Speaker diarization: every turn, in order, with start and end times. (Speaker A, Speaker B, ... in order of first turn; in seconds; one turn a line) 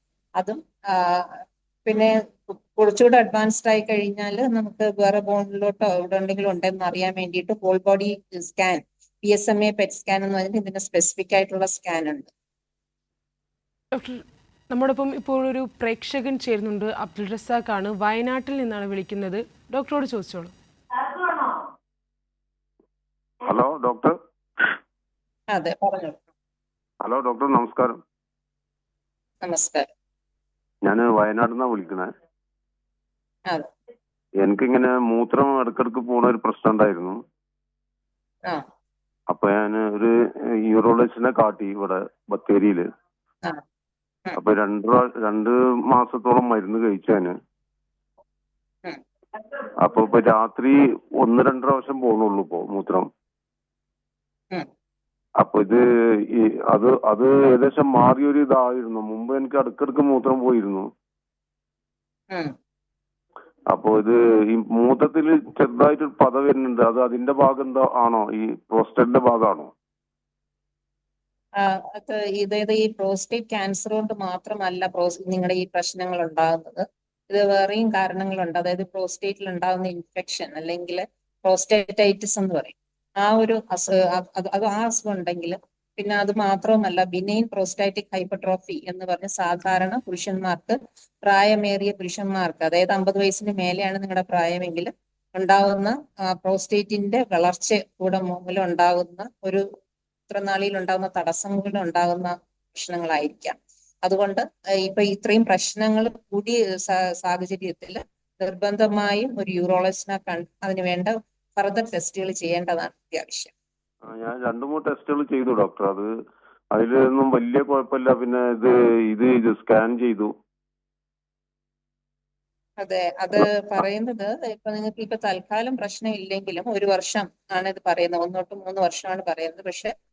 Speaker A: 0.4-12.3
Speaker B: 13.9-20.5
Speaker C: 23.4-24.1
Speaker A: 25.5-26.2
Speaker C: 27.0-28.0
Speaker A: 29.4-29.9
Speaker C: 30.9-32.1
Speaker C: 34.4-37.2
Speaker C: 39.3-40.1
Speaker C: 40.7-42.8
Speaker C: 44.4-47.3
Speaker C: 49.8-53.1
Speaker C: 55.4-55.9
Speaker C: 56.7-60.9
Speaker C: 63.7-69.7
Speaker A: 71.6-99.6
Speaker A: 100.3-113.5
Speaker C: 114.1-116.1
Speaker C: 116.7-120.3
Speaker A: 122.8-129.9